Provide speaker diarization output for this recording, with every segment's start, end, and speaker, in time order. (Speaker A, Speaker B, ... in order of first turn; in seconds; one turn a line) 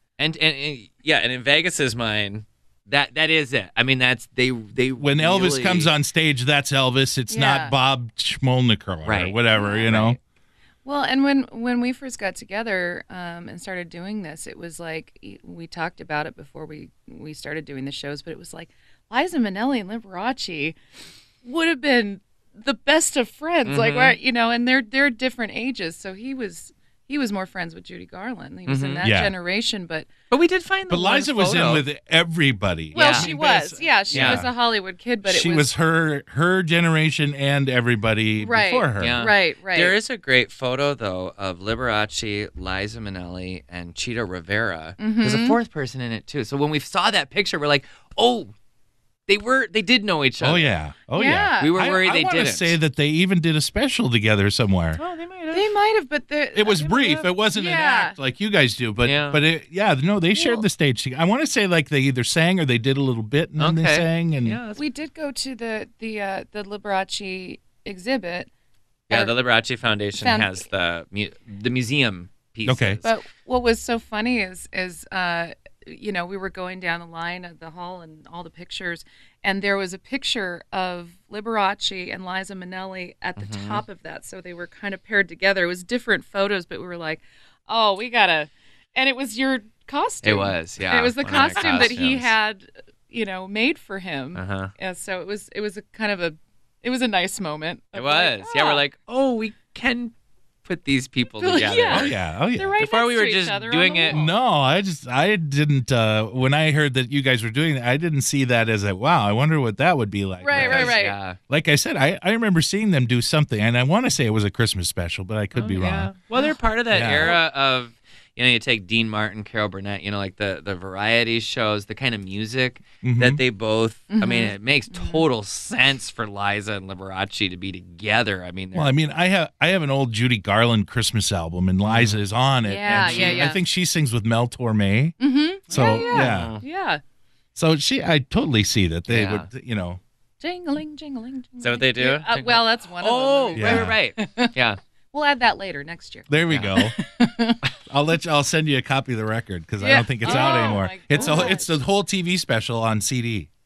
Speaker A: 0.2-5.9
Speaker B: 5.0-10.2
Speaker C: 7.3-7.8
Speaker A: 9.0-10.2
Speaker C: 9.5-10.0
Speaker C: 10.8-20.8
Speaker C: 21.4-30.1
Speaker A: 23.7-24.2
Speaker A: 28.7-29.1
Speaker B: 29.0-29.3
Speaker A: 30.3-31.9
Speaker B: 30.9-34.5
Speaker A: 32.9-33.3
Speaker C: 32.9-35.7
Speaker A: 34.1-34.4
Speaker B: 35.3-39.2
Speaker C: 38.4-40.0
Speaker A: 39.0-48.5
Speaker C: 45.0-45.6
Speaker A: 49.3-50.7
Speaker B: 50.4-55.0
Speaker C: 51.1-51.9
Speaker A: 51.6-52.8
Speaker A: 55.0-55.7
Speaker C: 55.5-58.2
Speaker B: 56.5-64.6
Speaker A: 56.8-57.3
Speaker A: 59.0-59.4
Speaker C: 60.4-60.6
Speaker A: 63.6-64.8
Speaker C: 64.8-68.5
Speaker A: 69.1-73.1
Speaker C: 69.1-69.4
Speaker C: 70.2-70.7
Speaker B: 72.7-73.0
Speaker C: 73.0-98.8
Speaker A: 83.4-83.8
Speaker A: 90.2-92.3
Speaker B: 91.3-91.6
Speaker A: 94.3-94.7
Speaker A: 97.9-102.2
Speaker C: 101.4-104.3
Speaker B: 101.9-102.7
Speaker A: 102.8-104.3
Speaker B: 104.1-116.1
Speaker C: 110.4-111.2
Speaker A: 110.5-111.4
Speaker A: 115.5-129.0
Speaker B: 116.9-117.4
Speaker C: 117.0-117.4
Speaker B: 123.0-123.4
Speaker C: 124.1-125.3
Speaker B: 128.7-135.2
Speaker A: 131.8-132.2
Speaker C: 132.6-133.6
Speaker A: 132.9-133.6
Speaker C: 135.2-137.0
Speaker B: 135.7-136.6
Speaker A: 135.7-136.6
Speaker B: 137.6-140.0
Speaker A: 139.1-139.5
Speaker C: 140.4-144.5
Speaker A: 141.6-144.8
Speaker B: 143.6-144.0
Speaker C: 145.1-147.6
Speaker B: 146.3-147.0
Speaker A: 146.5-146.8
Speaker B: 147.9-153.5
Speaker C: 149.8-151.7
Speaker A: 150.2-151.6